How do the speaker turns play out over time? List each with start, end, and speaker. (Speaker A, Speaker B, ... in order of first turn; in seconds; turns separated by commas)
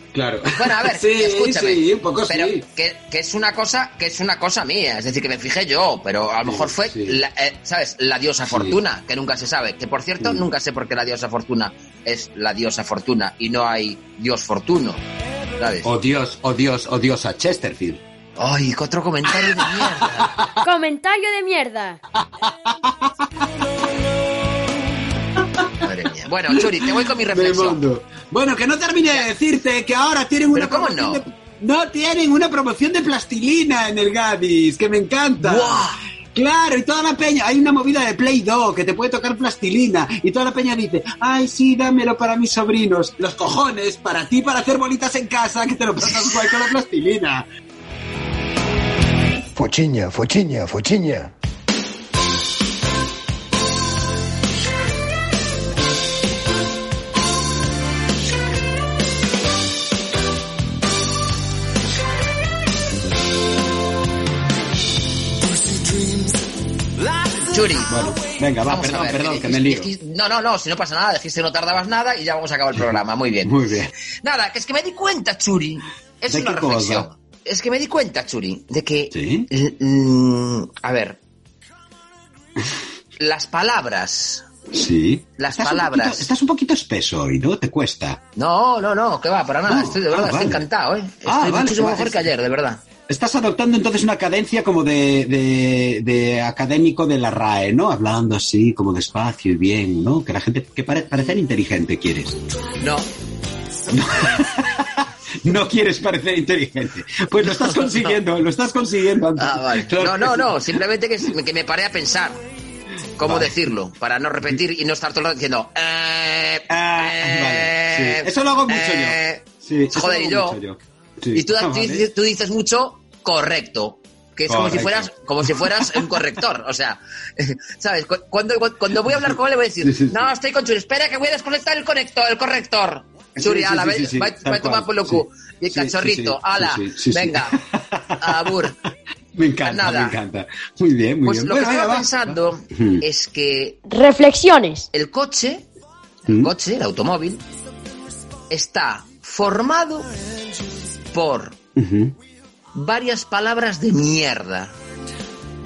Speaker A: 0.1-2.6, Speaker B: 0.5-15.0, Speaker A: 6.5-7.2, Speaker A: 8.4-8.8, Speaker A: 10.2-10.5, Speaker B: 15.6-15.9, Speaker A: 15.8-18.0, Speaker B: 18.4-20.4, Speaker A: 19.3-20.5, Speaker C: 20.6-22.0, Speaker A: 22.2-23.1, Speaker A: 25.4-25.7, Speaker B: 25.8-27.8, Speaker A: 26.5-47.5, Speaker B: 30.5-31.2, Speaker B: 35.4-36.0, Speaker A: 49.6-51.3, Speaker B: 67.5-68.1, Speaker A: 67.8-69.9, Speaker B: 68.6-73.7, Speaker A: 73.4-73.9, Speaker B: 74.2-81.2, Speaker A: 76.3-77.1, Speaker A: 79.1-79.5, Speaker B: 83.2-84.5, Speaker A: 84.7-88.2, Speaker B: 85.4-86.3, Speaker B: 88.4-92.8, Speaker A: 89.7-90.7, Speaker A: 91.2-92.3, Speaker A: 93.1-102.4, Speaker B: 102.8-103.1, Speaker A: 103.9-110.7, Speaker B: 107.4-108.2, Speaker B: 109.4-112.4, Speaker B: 113.2-120.6, Speaker A: 113.2-113.5, Speaker A: 116.7-122.1, Speaker B: 121.3-137.6, Speaker A: 124.5-126.3, Speaker A: 129.8-130.3, Speaker A: 133.4-138.7, Speaker B: 138.2-138.8, Speaker A: 139.3-143.1, Speaker B: 139.7-140.2, Speaker B: 141.2-143.8, Speaker C: 143.9-144.9, Speaker B: 144.9-145.7, Speaker A: 146.3-146.5, Speaker B: 146.3-147.4, Speaker B: 148.5-150.1, Speaker B: 151.1-151.6, Speaker A: 151.8-152.2, Speaker B: 152.7-154.7